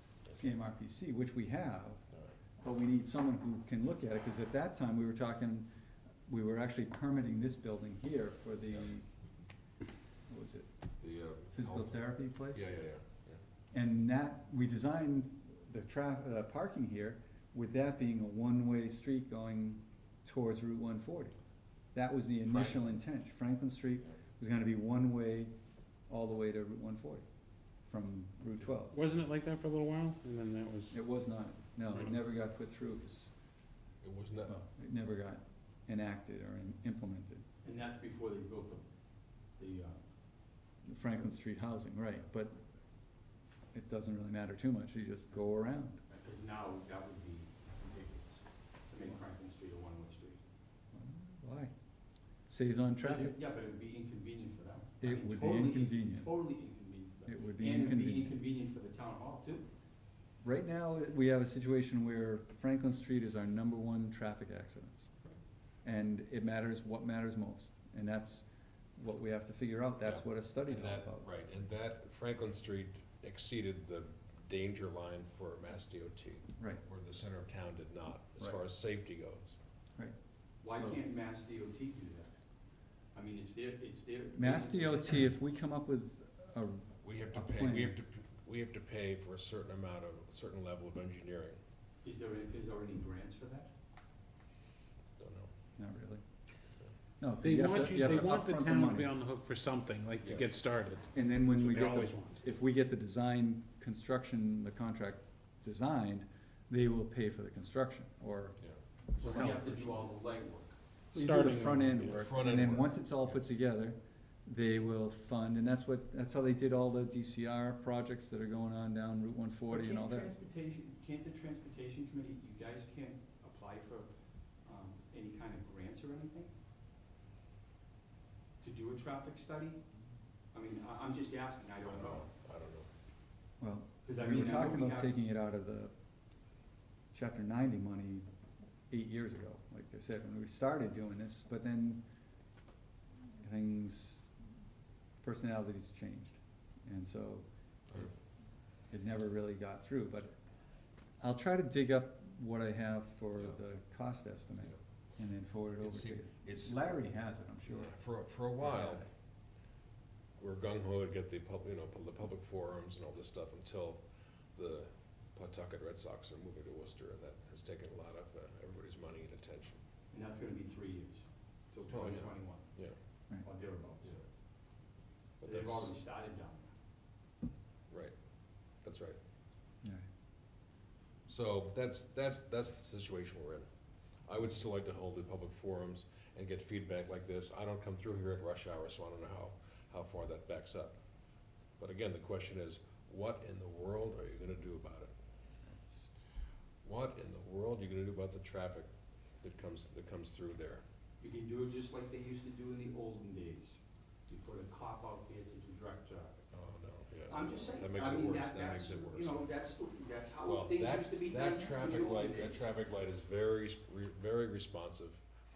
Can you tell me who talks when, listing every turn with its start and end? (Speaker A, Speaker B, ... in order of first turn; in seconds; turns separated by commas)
Speaker A: 0.3-2.0, Speaker A: 2.6-5.7, Speaker A: 6.3-9.0, Speaker A: 10.3-10.7, Speaker B: 11.0-12.0, Speaker A: 11.5-12.7, Speaker B: 12.5-13.4, Speaker A: 13.7-21.3, Speaker A: 21.9-25.5, Speaker B: 22.5-22.9, Speaker A: 26.1-27.2, Speaker A: 27.9-29.0, Speaker C: 28.9-30.9, Speaker A: 30.9-33.4, Speaker B: 34.0-34.5, Speaker A: 34.5-37.4, Speaker D: 37.6-38.8, Speaker D: 39.5-40.0, Speaker A: 40.8-42.6, Speaker A: 43.7-46.0, Speaker D: 46.1-50.4, Speaker A: 50.9-51.7, Speaker A: 52.5-53.4, Speaker D: 53.0-59.7, Speaker A: 55.0-56.3, Speaker A: 57.3-58.3, Speaker A: 60.4-65.1, Speaker A: 65.8-71.2, Speaker B: 70.0-79.5, Speaker A: 76.6-76.8, Speaker D: 80.6-82.3, Speaker A: 80.7-81.0, Speaker D: 83.1-85.3, Speaker A: 84.3-88.0, Speaker B: 87.0-91.6, Speaker D: 92.0-93.7, Speaker B: 95.2-95.5, Speaker A: 95.8-96.2, Speaker A: 97.2-99.1, Speaker C: 97.4-102.4, Speaker B: 100.2-100.5, Speaker A: 101.1-108.6, Speaker A: 109.1-110.0, Speaker D: 109.2-110.7, Speaker C: 109.2-109.6, Speaker C: 111.1-112.1, Speaker A: 111.1-120.3, Speaker B: 112.0-113.4, Speaker D: 119.7-124.1, Speaker D: 124.6-126.5, Speaker D: 128.6-129.8, Speaker D: 130.5-132.3, Speaker B: 131.8-132.9, Speaker A: 133.6-135.9, Speaker D: 134.0-135.1, Speaker A: 137.1-138.2, Speaker A: 138.9-142.0, Speaker A: 143.4-144.3, Speaker A: 145.2-148.1, Speaker A: 148.9-150.3, Speaker A: 151.2-157.9, Speaker B: 155.8-156.9, Speaker B: 157.7-159.0, Speaker A: 158.6-159.1, Speaker B: 160.4-164.0, Speaker B: 164.5-169.8, Speaker D: 170.1-172.7, Speaker B: 171.9-172.9, Speaker D: 173.4-174.1, Speaker B: 175.4-175.9, Speaker D: 175.4-176.7, Speaker B: 178.8-179.2, Speaker B: 181.3-183.7, Speaker B: 184.3-190.9, Speaker B: 191.8-195.1, Speaker A: 195.6-196.1, Speaker B: 196.8-198.9, Speaker B: 199.4-200.8, Speaker D: 201.2-206.4, Speaker B: 206.5-209.4, Speaker D: 207.3-212.7, Speaker B: 210.4-215.2